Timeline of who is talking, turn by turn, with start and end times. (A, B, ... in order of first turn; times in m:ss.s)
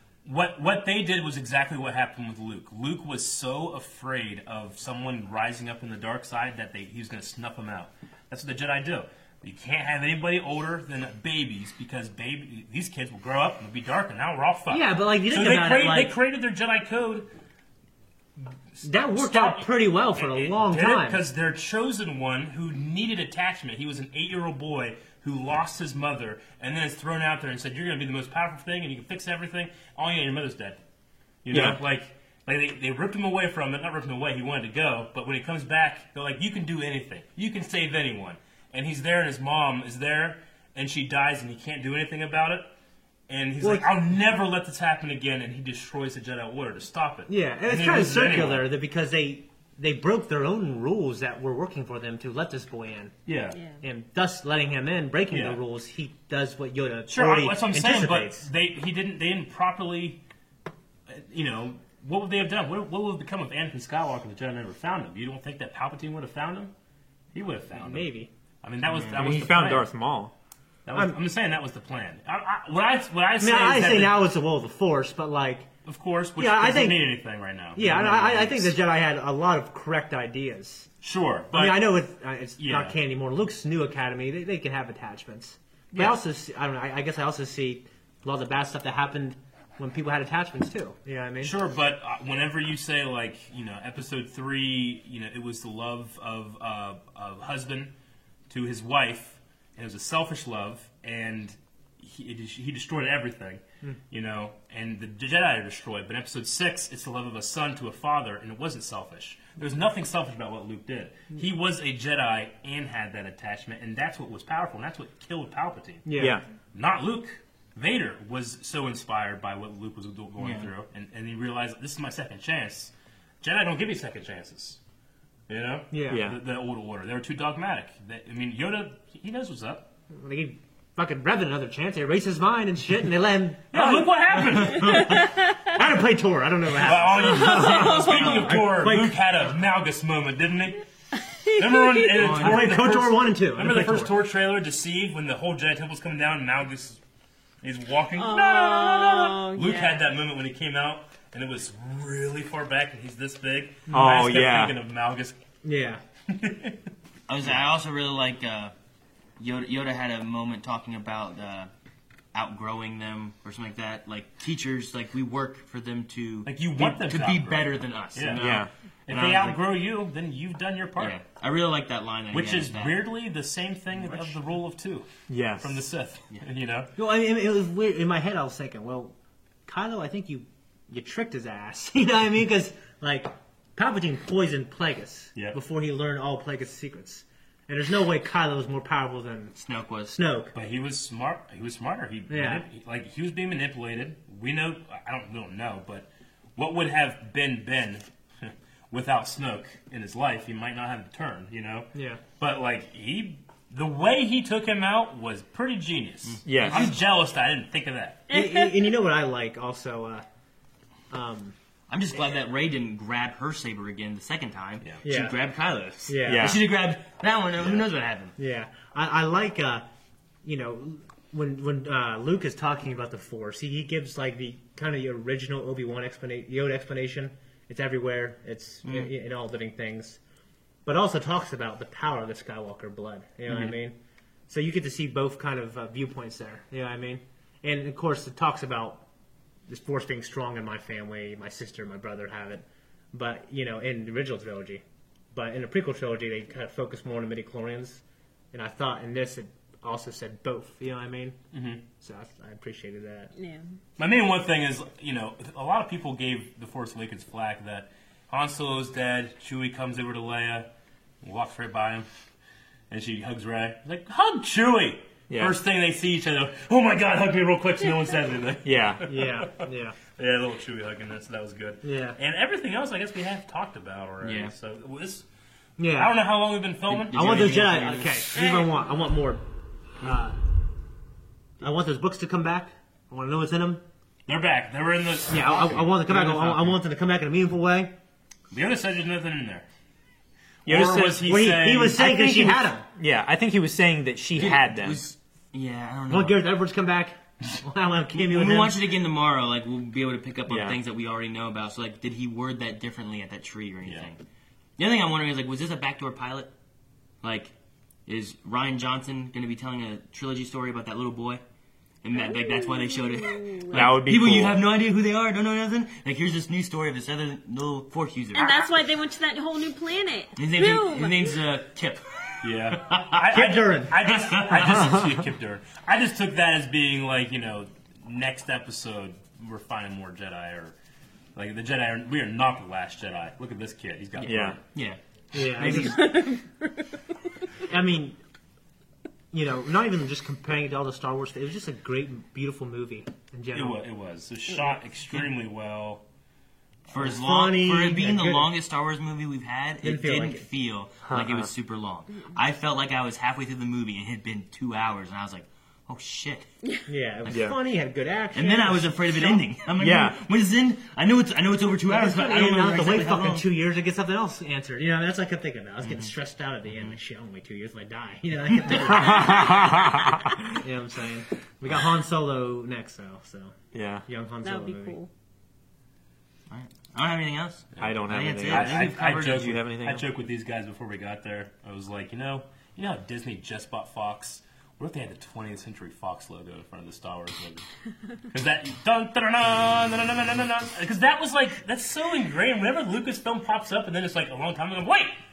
0:00.2-0:17.3 A
0:14.7-0:16.2 B
0:18.8-0:30.8 A
0:18.8-0:21.2 B
0:31.4-0:42.7 A
0:31.5-0:31.8 C
0:43.3-0:48.7 A
0:43.6-0:43.9 B
0:47.3-0:53.1 B
0:53.2-0:53.6 A
0:53.5-0:53.8 D
0:53.8-0:58.4 B
0:55.3-0:55.6 A
0:57.1-1:00.2 A
1:01.1-1:06.7 A
1:07.3-1:09.8 A
1:07.7-1:08.3 B
1:08.9-1:09.2 E
1:09.1-1:10.3 C
1:09.2-1:09.8 B
1:10.8-1:14.2 A
1:13.4-1:15.7 B
1:15.8-1:18.8 A
1:16.4-1:17.1 B
1:17.7-1:20.9 B
1:21.0-1:21.9 A
1:21.5-1:31.5 B
1:22.6-1:23.0 A
1:25.9-1:26.2 A
1:31.4-1:37.9 A
1:38.5-2:04.8 A
1:56.0-1:56.4 B
1:56.2-1:56.4 C
2:00.4-2:00.7 E
2:05.5-2:09.9 A
2:05.9-2:06.2 B
2:06.1-2:06.4 C
2:10.1-2:14.8 B
2:13.7-2:15.3 A
2:14.6-2:15.2 E
2:14.8-2:15.8 D
2:15.7-2:19.2 B
2:16.7-2:20.8 A
2:17.2-2:18.6 D
2:21.2-2:22.2 D
2:21.5-2:27.0 A
2:22.1-2:22.8 E
2:22.3-2:24.1 B
2:27.6-2:35.4 A
2:28.2-2:30.0 D
2:33.9-2:34.3 B
2:33.9-2:34.8 C
2:35.6-2:36.0 B
2:36.3-2:36.8 A
2:37.3-2:38.7 E
2:39.4-2:41.7 E
2:42.3-2:49.6 E
2:46.4-2:51.2 A
2:48.3-2:48.7 C
2:51.0-2:53.0 E
2:52.3-2:56.9 A
2:54.0-2:54.3 B
2:55.3-2:55.8 C
2:57.0-2:59.1 B
2:59.7-3:09.5 B
3:09.6-3:10.2 E
3:10.1-3:10.5 B
3:10.5-3:28.3 A
3:12.3-3:12.6 B
3:21.9-3:22.2 B
3:26.2-3:27.0 E
3:26.4-3:26.9 C
3:28.3-3:29.0 D
3:28.3-3:30.2 B
3:31.1-3:31.5 B
3:31.9-3:38.3 E
3:35.0-3:35.4 B
3:36.0-3:36.6 B
3:36.2-3:36.6 C
3:37.6-3:37.9 A
3:38.4-3:39.8 B
3:40.4-3:50.2 B
3:48.8-3:49.1 E
3:50.8-3:54.0 B
3:54.5-3:59.0 B
3:59.7-4:11.4 B
4:11.5-4:11.8 A
4:12.0-4:13.3 B
4:13.4-4:13.6 D
4:14.0-4:20.7 A
4:21.2-4:22.1 A
4:22.9-4:35.2 A
4:25.3-4:25.6 C
4:28.6-4:29.1 C
4:29.1-4:30.0 B
4:31.8-4:32.2 B
4:34.2-4:34.5 E
4:35.8-4:36.2 B
4:35.8-4:37.8 A
4:36.9-4:38.2 E
4:37.0-4:39.4 B
4:38.3-4:38.8 A
4:40.0-4:40.4 B
4:41.6-4:43.8 B
4:44.3-4:46.8 A
4:45.3-4:47.9 B
4:48.5-4:49.7 A
4:50.6-4:51.4 C
4:50.6-4:52.0 A
4:51.2-4:52.8 B
4:51.9-4:55.1 C
4:54.4-4:56.4 E
4:56.1-4:58.8 B
4:58.1-5:04.2 E
5:00.5-5:00.8 C
5:04.8-5:06.5 E
5:07.2-5:07.5 E
5:08.1-5:11.4 E
5:12.0-5:18.8 E
5:12.1-5:14.0 D
5:13.7-5:14.6 C
5:18.3-5:21.4 D
5:20.4-5:23.2 E
5:22.4-5:30.7 A
5:23.3-5:24.6 B
5:24.0-5:24.8 E
5:31.3-5:34.6 A
5:34.2-5:36.2 E
5:34.2-5:34.6 C
5:35.3-5:36.2 B
5:35.7-5:37.2 D
5:37.6-5:38.2 B
5:39.3-5:43.8 B
5:43.5-5:46.0 A
5:46.9-5:56.5 E
5:47.0-5:48.5 B
5:49.8-5:50.4 B
5:51.0-5:51.5 C
5:56.9-5:59.4 B
5:57.3-5:57.6 C
5:58.3-6:03.5 E
5:59.8-6:00.2 C
6:01.9-6:09.9 B
6:05.8-6:06.1 E
6:08.7-6:08.9 E
6:08.8-6:10.4 C
6:10.6-6:13.5 B
6:13.7-6:14.0 C
6:14.0-6:15.0 B
6:14.4-6:15.1 D
6:16.5-6:19.5 E
6:17.8-6:20.0 C
6:18.5-6:27.6 A
6:28.3-6:35.2 A